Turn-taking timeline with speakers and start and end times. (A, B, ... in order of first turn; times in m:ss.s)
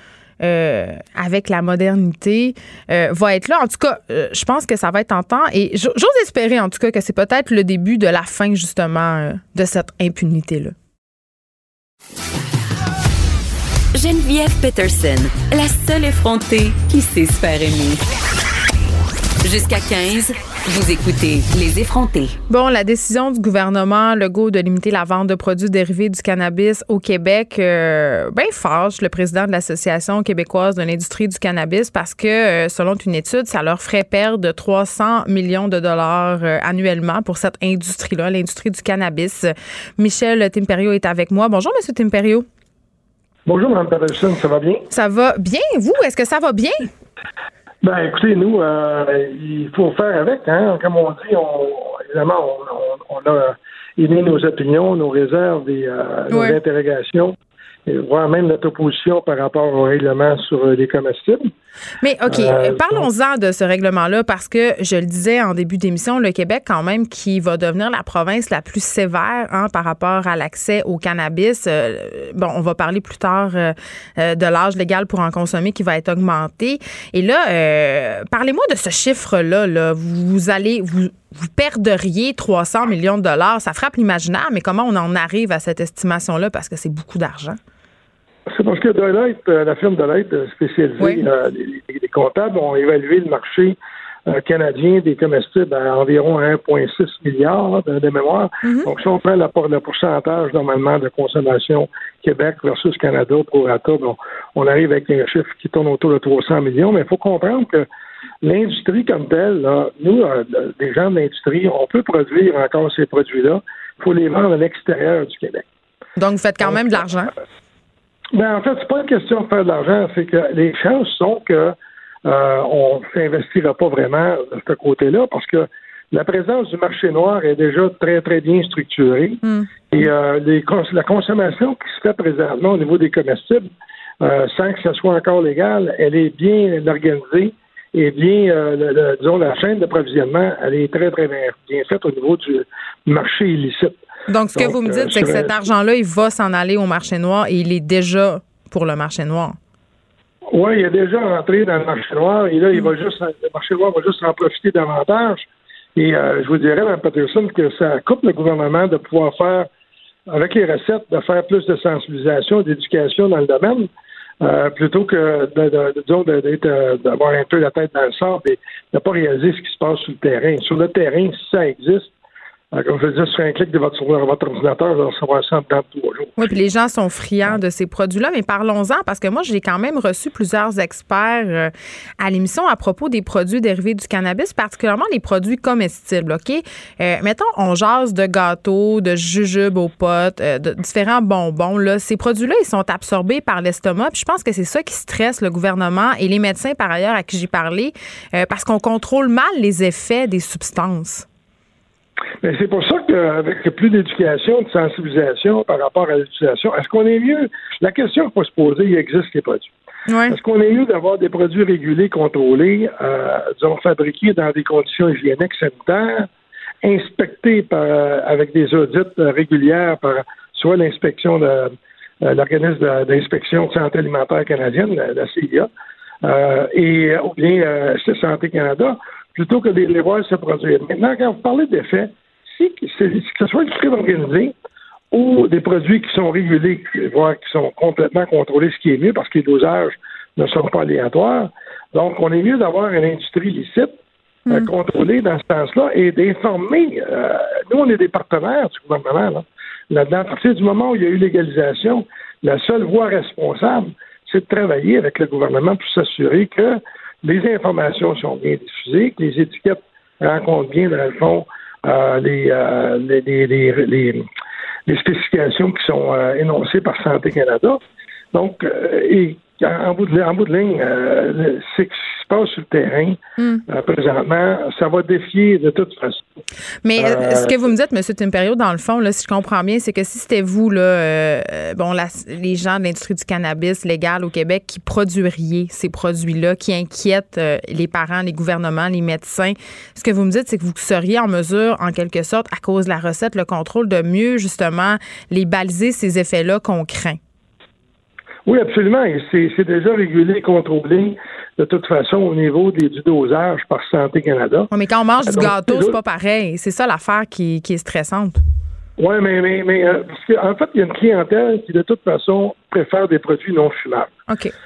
0:00.4-0:10.7 A
0:13.9-0:18.0 B
0:19.4-0:22.4 B
0:22.5-0:42.5 A
0:43.5-0:44.9 C
0:44.9-0:46.9 A
0:47.8-1:01.5 C
0:56.3-0:56.6 A
1:02.0-1:27.6 A
1:02.3-1:03.1 C
1:28.5-1:47.9 C
1:31.0-1:31.2 A
1:38.6-1:38.9 A
1:48.4-1:55.6 C
1:56.2-1:57.3 A
1:58.3-2:13.7 C
2:14.2-2:24.0 C
2:24.3-2:29.6 A
2:24.6-2:25.6 C
2:30.5-2:39.7 C
2:40.3-2:43.9 C
2:44.4-2:52.1 C
2:52.7-2:56.6 C
2:56.4-3:21.3 A
3:22.4-3:29.7 C
3:30.1-3:30.4 A
3:30.3-3:36.3 C
3:36.8-3:45.7 C
3:46.2-3:54.6 C
3:55.1-4:04.0 C
4:04.5-4:24.3 C
4:24.9-4:27.8 C
4:28.3-4:36.2 C
4:33.4-4:33.6 A
4:36.8-4:57.2 A
4:37.0-4:37.5 C
4:58.5-5:04.7 C
5:04.7-5:08.4 A
5:05.2-5:06.0 C
5:09.0-5:14.1 C
5:14.3-5:14.5 A